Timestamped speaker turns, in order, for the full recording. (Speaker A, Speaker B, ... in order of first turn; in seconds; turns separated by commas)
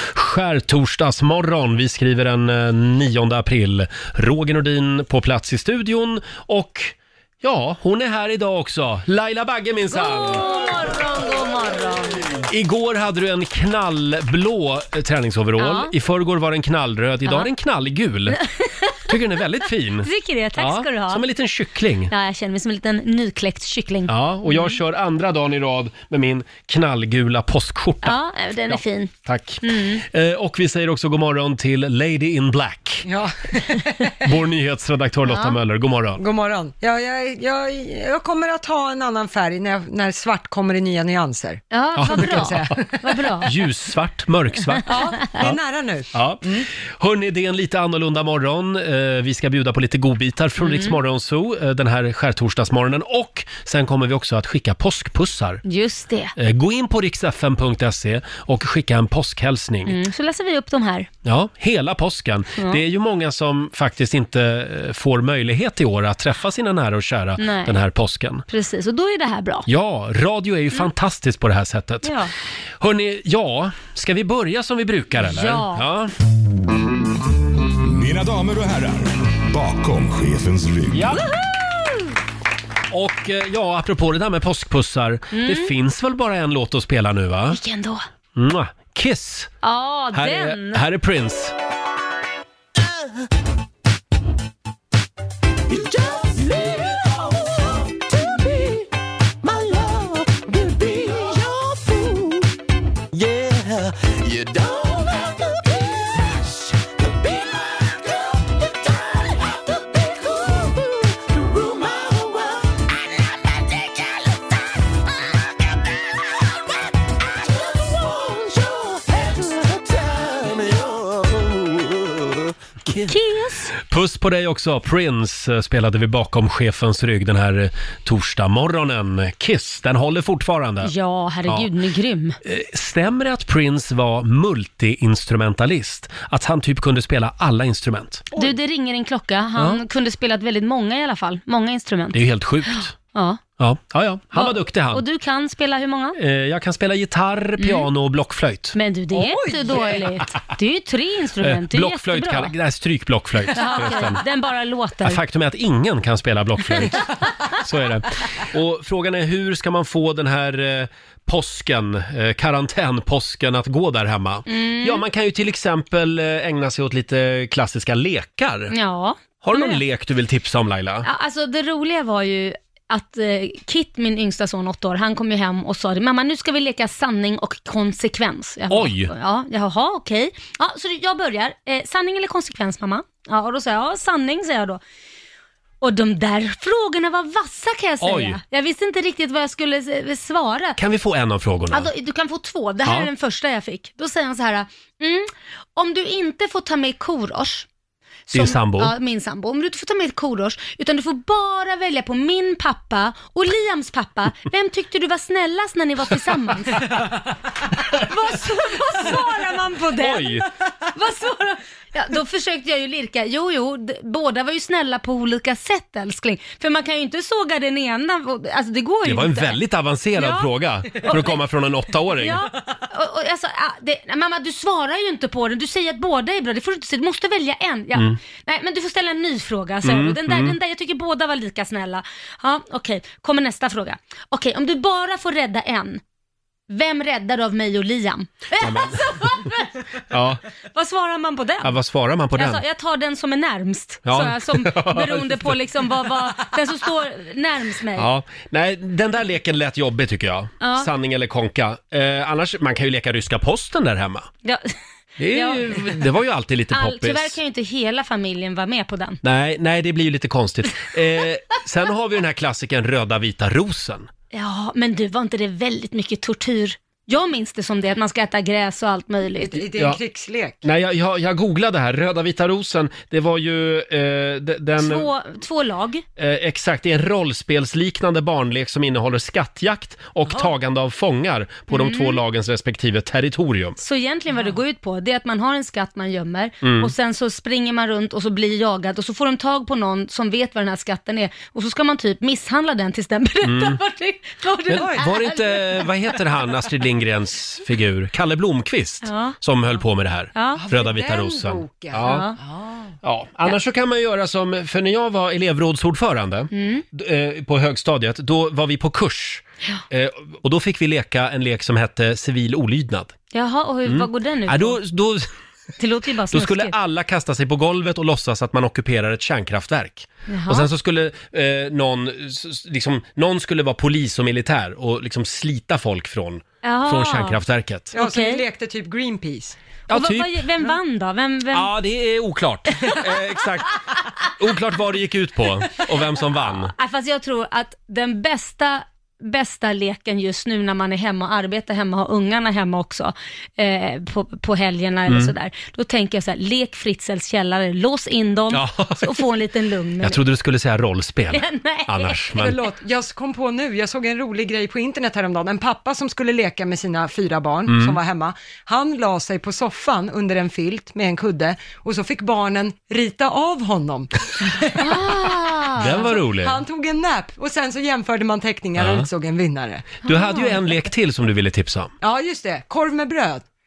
Speaker A: 0.1-10.6, Speaker B: 9.9-12.3, Speaker A: 12.5-18.4, Speaker B: 15.6-15.9, Speaker B: 18.4-19.0, Speaker A: 19.1-22.1, Speaker B: 20.0-21.2, Speaker B: 22.1-24.8, Speaker A: 24.1-28.2, Speaker B: 28.0-29.1, Speaker A: 28.7-33.1, Speaker B: 29.6-30.0, Speaker C: 33.1-33.9, Speaker A: 34.2-36.2, Speaker B: 35.3-35.6, Speaker C: 36.2-43.0, Speaker B: 41.7-43.5, Speaker A: 42.0-42.8, Speaker A: 43.4-45.6, Speaker B: 44.9-45.3, Speaker C: 44.9-46.6, Speaker A: 46.1-46.5, Speaker A: 47.0-55.6, Speaker B: 50.6-51.0, Speaker B: 55.6-56.4, Speaker A: 56.4-60.0, Speaker B: 59.9-61.1, Speaker A: 61.2-68.4, Speaker B: 67.4-67.8, Speaker B: 68.5-69.7, Speaker A: 69.7-72.1, Speaker B: 72.0-72.3, Speaker A: 72.8-76.1, Speaker B: 75.2-75.8, Speaker D: 77.8-81.2, Speaker A: 80.9-81.2, Speaker B: 81.3-82.0, Speaker A: 82.9-87.6, Speaker B: 85.3-85.7, Speaker B: 87.5-88.0, Speaker A: 88.4-89.5, Speaker B: 89.6-90.8, Speaker A: 90.1-91.5, Speaker D: 100.8-101.1, Speaker A: 103.4-103.8, Speaker D: 104.0-104.9, Speaker A: 122.8-123.2, Speaker B: 123.1-123.7, Speaker A: 123.7-130.9, Speaker B: 130.8-132.4, Speaker A: 132.4-138.3, Speaker B: 138.3-142.2, Speaker A: 142.1-142.9, Speaker B: 142.7-143.4, Speaker A: 143.6-145.0, Speaker B: 144.3-146.2, Speaker A: 146.2-148.8, Speaker B: 147.6-147.9, Speaker B: 148.8-152.5, Speaker C: 149.2-150.0, Speaker A: 151.4-154.2, Speaker B: 153.6-155.2, Speaker A: 155.0-168.7, Speaker B: 164.5-165.0, Speaker B: 168.7-169.8, Speaker A: 169.4-171.1, Speaker B: 171.1-184.8, Speaker A: 178.7-179.1, Speaker B: 185.8-190.8, Speaker A: 188.0-188.4, Speaker A: 190.8-191.9, Speaker B: 191.7-197.7, Speaker A: 198.3-198.9, Speaker B: 198.3-207.1, Speaker B: 207.9-219.6, Speaker A: 210.0-210.4, Speaker A: 219.1-222.5, Speaker B: 220.2-221.4, Speaker B: 222.2-236.0, Speaker A: 229.8-230.6, Speaker B: 236.7-239.8, Speaker A: 238.6-239.2, Speaker A: 240.1-240.4, Speaker B: 240.7-241.8, Speaker A: 241.6-242.6, Speaker B: 242.4-248.1, Speaker A: 244.1-245.6, Speaker A: 248.0-254.3, Speaker B: 250.6-250.9, Speaker B: 254.4-254.7, Speaker A: 255.2-257.4, Speaker B: 255.3-256.0, Speaker B: 256.7-259.2, Speaker A: 259.2-264.1, Speaker B: 264.3-269.7, Speaker C: 269.4-270.6, Speaker A: 270.6-275.1, Speaker B: 274.8-276.0, Speaker A: 276.2-283.8, Speaker B: 281.7-282.2, Speaker B: 283.8-296.1, Speaker A: 286.6-286.9, Speaker A: 293.4-293.8, Speaker A: 294.7-302.3, Speaker C: 294.8-295.0, Speaker B: 299.1-299.4, Speaker B: 300.4-300.6, Speaker C: 300.6-302.9, Speaker B: 302.0-302.4, Speaker A: 303.0-313.2, Speaker B: 306.5-306.9, Speaker B: 313.3-314.8, Speaker A: 313.9-315.3, Speaker B: 315.8-316.8, Speaker A: 316.3-328.0, Speaker B: 320.3-320.7, Speaker B: 326.6-327.4, Speaker B: 327.9-328.4, Speaker C: 327.9-329.6, Speaker A: 329.9-330.4, Speaker B: 329.9-331.7, Speaker A: 331.5-333.8, Speaker A: 334.4-336.7, Speaker B: 336.8-350.2, Speaker A: 345.1-345.3, Speaker A: 348.5-349.1, Speaker A: 350.0-352.6, Speaker B: 351.3-352.2, Speaker C: 352.4-365.0, Speaker A: 357.7-358.0, Speaker B: 364.8-366.1, Speaker A: 365.8-366.6, Speaker C: 366.1-370.0, Speaker A: 368.8-369.1, Speaker A: 370.1-371.9, Speaker B: 370.1-370.6, Speaker C: 372.0-373.5